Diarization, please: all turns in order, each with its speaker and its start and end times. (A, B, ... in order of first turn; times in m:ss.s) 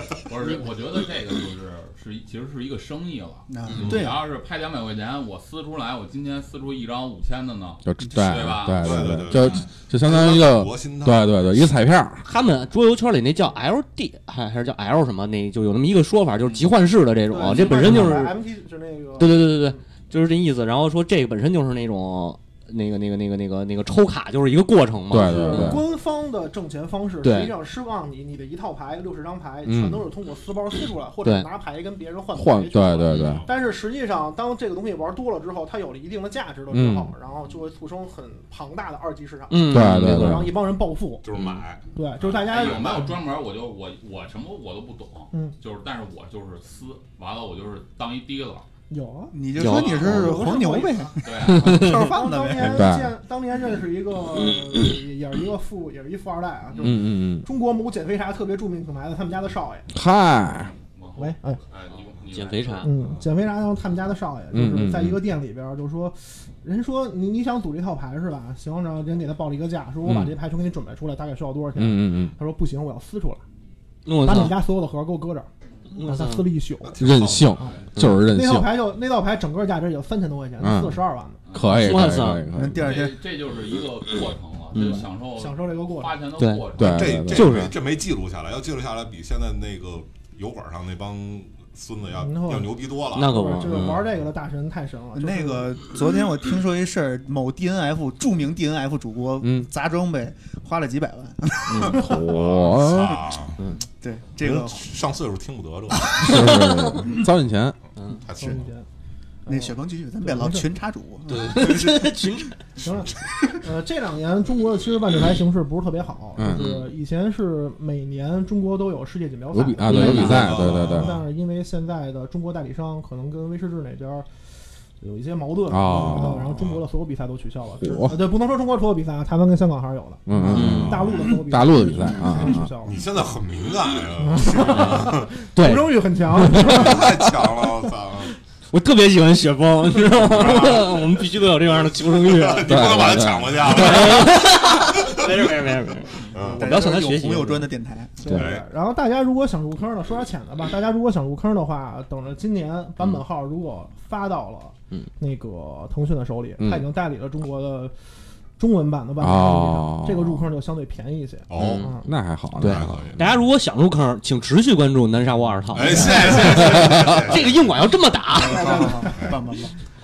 0:00.2-0:09.3 A
0:03.5-0:04.2 B
0:03.7-0:04.1 C
0:07.8-0:12.2 D
0:08.0-0:08.5 B
0:08.7-0:11.8 C
0:12.2-0:18.4 E
0:17.3-0:19.8 F
0:17.8-0:18.1 D
0:19.2-0:25.8 E
0:25.1-0:25.8 D
0:25.2-0:41.3 F
0:27.2-0:27.5 E
0:29.6-0:30.0 D
0:32.3-0:33.4 D
0:33.1-0:33.4 E
0:33.1-0:33.5 C
0:36.7-0:37.1 D
0:39.5-0:40.5 E
0:39.7-0:40.5 D
0:41.2-0:43.1 C
0:41.9-0:43.1 F
0:42.3-0:48.6 A
0:48.9-0:49.4 F
0:49.3-0:52.8 B
0:49.5-0:50.6 E
0:49.9-0:59.9 F
0:51.2-0:51.8 A
0:51.5-0:52.2 E
0:52.6-0:53.1 D
0:56.8-0:57.4 D
0:59.9-1:00.7 D
1:00.8-1:02.9 A
1:01.2-1:01.6 F
1:02.2-1:02.9 E
1:02.8-1:13.4 F
1:04.5-1:05.2 D
1:10.0-1:10.3 D
1:11.8-1:12.3 D
1:14.0-1:14.6 E
1:14.2-1:15.5 F
1:16.0-1:16.4 E
1:16.0-1:17.0 F
1:16.8-1:17.9 C
1:17.0-1:18.7 D
1:17.6-1:21.4 F
1:17.9-1:18.2 E
1:20.6-1:21.0 D
1:21.5-1:21.9 A
1:21.5-1:23.0 D
1:21.7-1:22.5 E
1:22.5-1:23.2 B
1:22.7-1:27.2 A
1:24.7-1:25.1 E
1:25.2-1:26.2 F
1:26.4-1:26.7 E
1:26.8-1:27.6 D
1:26.8-1:33.3 C
1:27.2-1:27.7 E
1:32.2-1:35.7 F
1:33.1-1:33.9 E
1:33.6-1:34.0 D
1:35.2-1:42.2 B
1:39.4-1:39.7 D
1:41.7-1:42.1 E
1:41.9-1:43.2 D
1:42.2-1:43.6 C
1:43.6-1:43.8 E
1:43.9-1:44.8 B
1:44.4-1:46.2 C
1:46.2-1:47.8 D
1:46.2-1:47.0 E
1:48.1-1:48.7 C
1:48.4-1:48.8 F
1:49.4-1:50.7 F
1:49.5-1:52.3 B
1:51.3-1:52.6 E
1:52.8-2:04.3 F
1:56.4-1:56.7 D
1:56.5-1:56.9 E
1:59.5-2:01.1 D
1:59.9-2:00.6 E
2:00.2-2:01.1 C
2:05.0-2:13.0 F
2:05.7-2:06.6 D
2:06.5-2:06.8 C
2:07.8-2:08.2 D
2:10.3-2:12.7 D
2:10.5-2:11.0 E
2:10.6-2:11.2 C
2:12.8-2:15.4 C
2:14.2-2:17.0 F
2:15.5-2:17.3 E
2:16.6-2:18.3 C
2:18.7-2:23.0 E
2:20.2-2:25.3 C
2:22.6-2:23.8 D
2:23.6-2:27.7 E
2:26.3-2:26.6 C
2:26.6-2:28.4 B
2:28.2-2:37.9 F
2:28.3-2:28.6 C
2:38.6-2:42.1 F
2:39.2-2:40.5 D
2:41.5-2:41.9 C
2:41.5-2:42.0 E
2:42.0-2:43.1 D
2:42.6-2:49.0 E
2:42.6-2:43.3 C
2:45.7-2:47.8 C
2:46.8-2:47.1 D
2:48.5-2:49.4 F
2:48.5-2:49.7 B
2:48.6-2:49.4 C